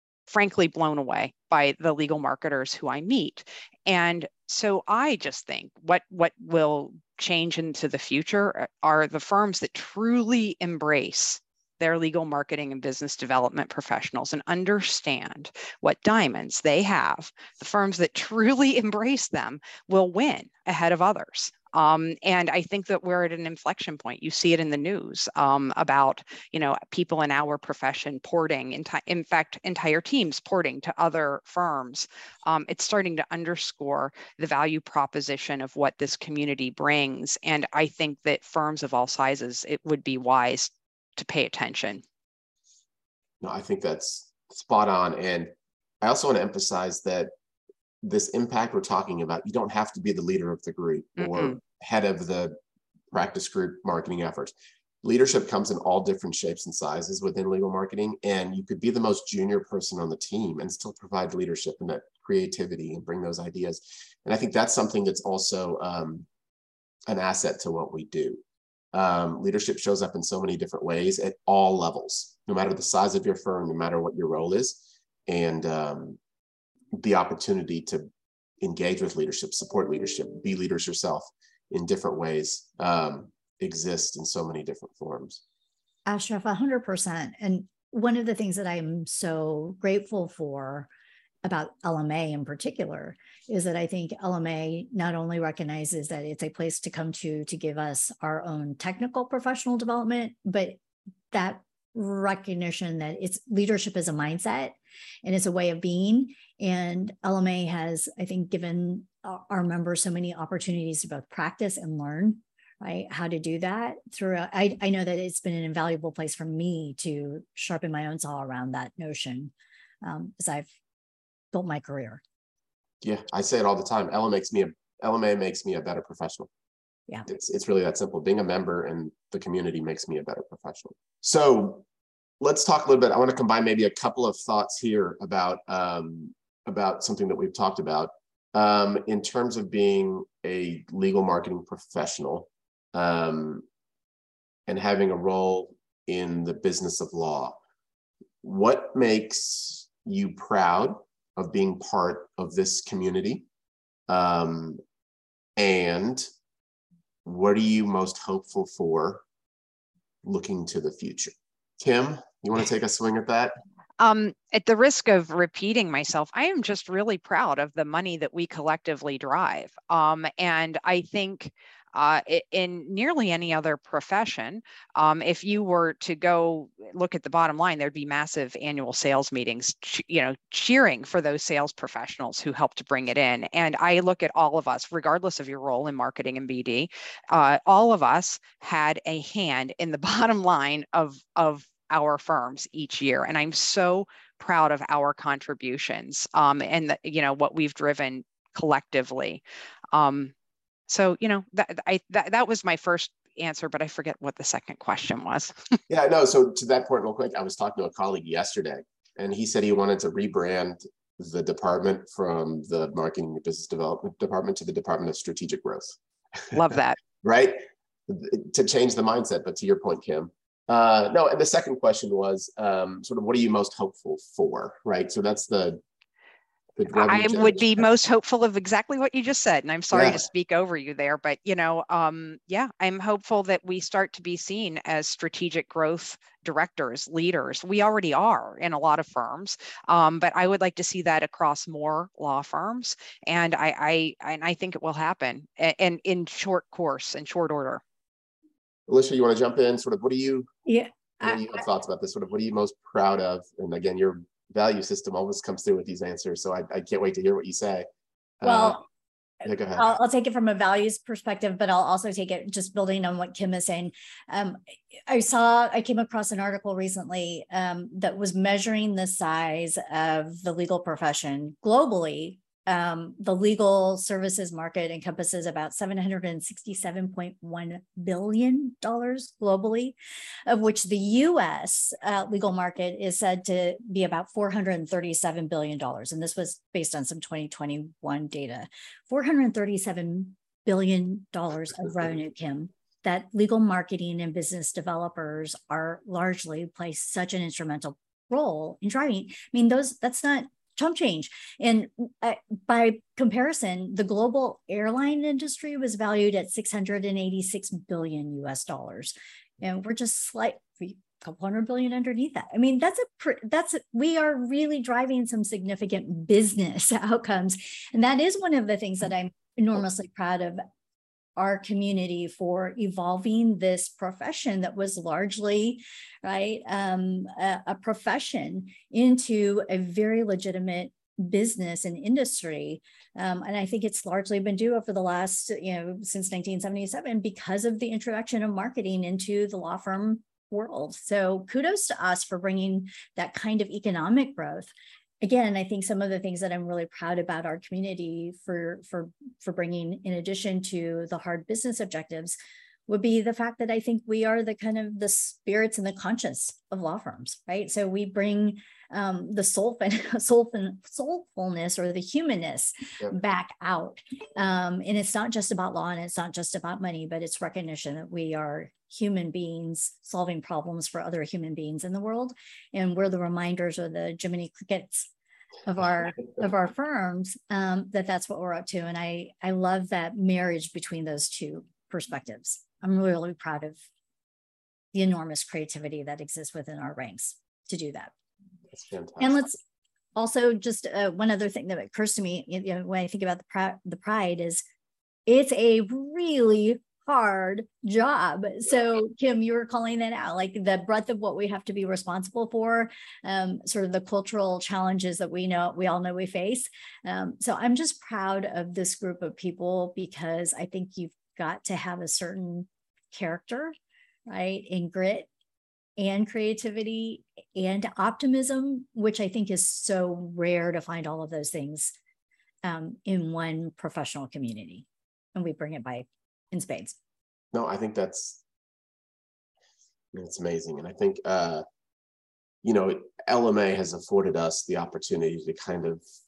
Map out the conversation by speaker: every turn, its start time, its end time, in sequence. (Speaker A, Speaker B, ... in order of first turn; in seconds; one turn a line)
Speaker A: 0.3-42.0
Speaker B: 43.4-47.3
Speaker B: 48.0-52.6
Speaker A: 51.2-51.5
Speaker B: 53.1-66.3
Speaker B: 67.1-68.4
Speaker B: 68.9-76.2
Speaker B: 76.9-78.1
Speaker B: 78.6-85.4
Speaker C: 86.1-90.9
Speaker C: 91.4-100.8
Speaker C: 101.3-120.7
Speaker C: 121.5-122.2
Speaker B: 123.0-126.5
Speaker B: 127.3-131.8
Speaker B: 132.4-143.7
Speaker B: 144.7-147.6
Speaker B: 148.4-153.5
Speaker B: 154.1-154.8
Speaker B: 155.6-156.3
Speaker B: 157.2-159.2
Speaker B: 160.2-163.5
Speaker A: 164.0-200.3
Speaker A: 200.9-205.8
Speaker B: 205.9-216.6
Speaker A: 216.5-217.0
Speaker B: 217.2-225.8
Speaker B: 226.8-227.8
Speaker A: 226.9-247.8
Speaker B: 229.9-230.2
Speaker B: 248.9-250.5
Speaker C: 250.7-251.6
Speaker B: 251.2-257.9
Speaker B: 258.4-258.8
Speaker C: 258.4-258.8
Speaker B: 259.4-259.9
Speaker C: 259.7-320.6
Speaker C: 321.4-375.1
Speaker C: 375.7-383.8
Speaker C: 384.9-388.1
Speaker B: 388.7-389.4
Speaker C: 389.2-389.6
Speaker C: 390.2-394.6
Speaker C: 395.3-413.7
Speaker C: 414.3-415.3
Speaker C: 416.0-421.9
Speaker C: 422.6-427.0
Speaker B: 427.5-428.4
Speaker B: 430.1-431.6
Speaker B: 432.6-436.0